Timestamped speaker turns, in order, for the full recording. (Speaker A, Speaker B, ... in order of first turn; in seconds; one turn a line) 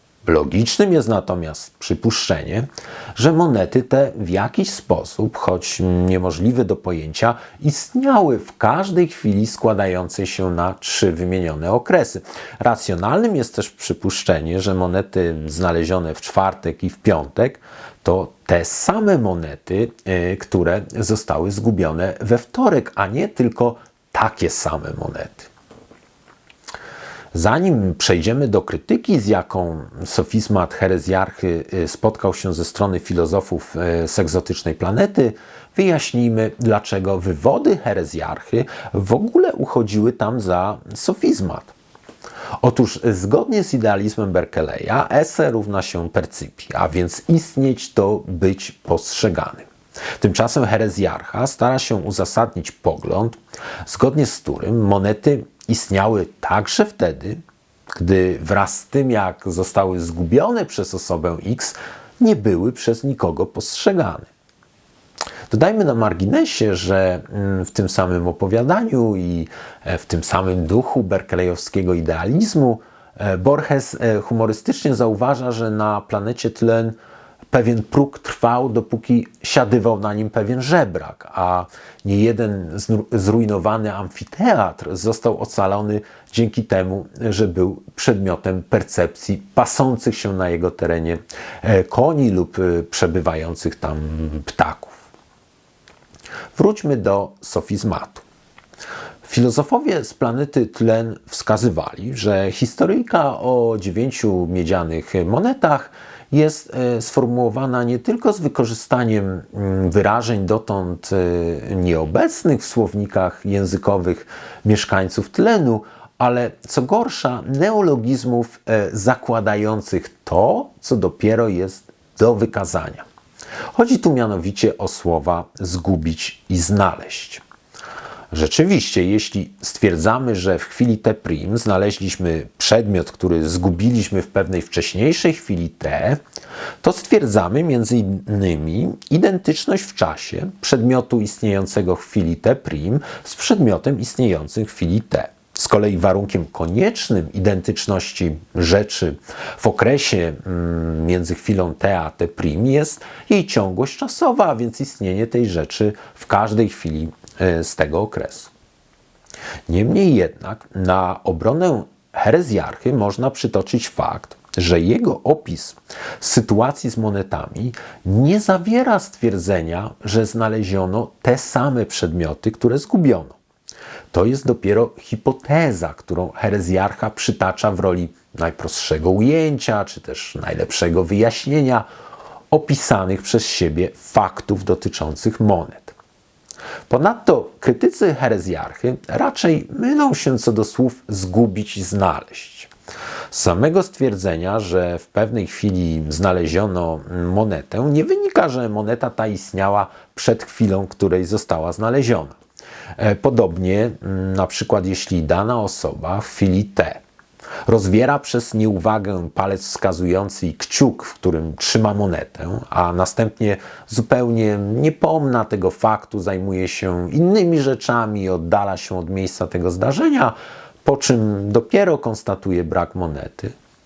Speaker A: 0.2-25.5
Speaker A: 27.3-41.7
Speaker A: 42.6-64.3
Speaker A: 65.5-77.0
Speaker A: 77.5-95.0
Speaker A: 96.5-98.2
Speaker A: 99.2-123.0
Speaker A: 123.7-127.4
Speaker A: 128.3-136.2
Speaker A: 136.8-158.5
Speaker A: 159.7-173.4
Speaker A: 174.1-181.8
Speaker A: 182.5-185.9
Speaker A: 186.9-192.7
Speaker A: 193.3-202.4
Speaker A: 203.0-207.0
Speaker A: 207.7-223.5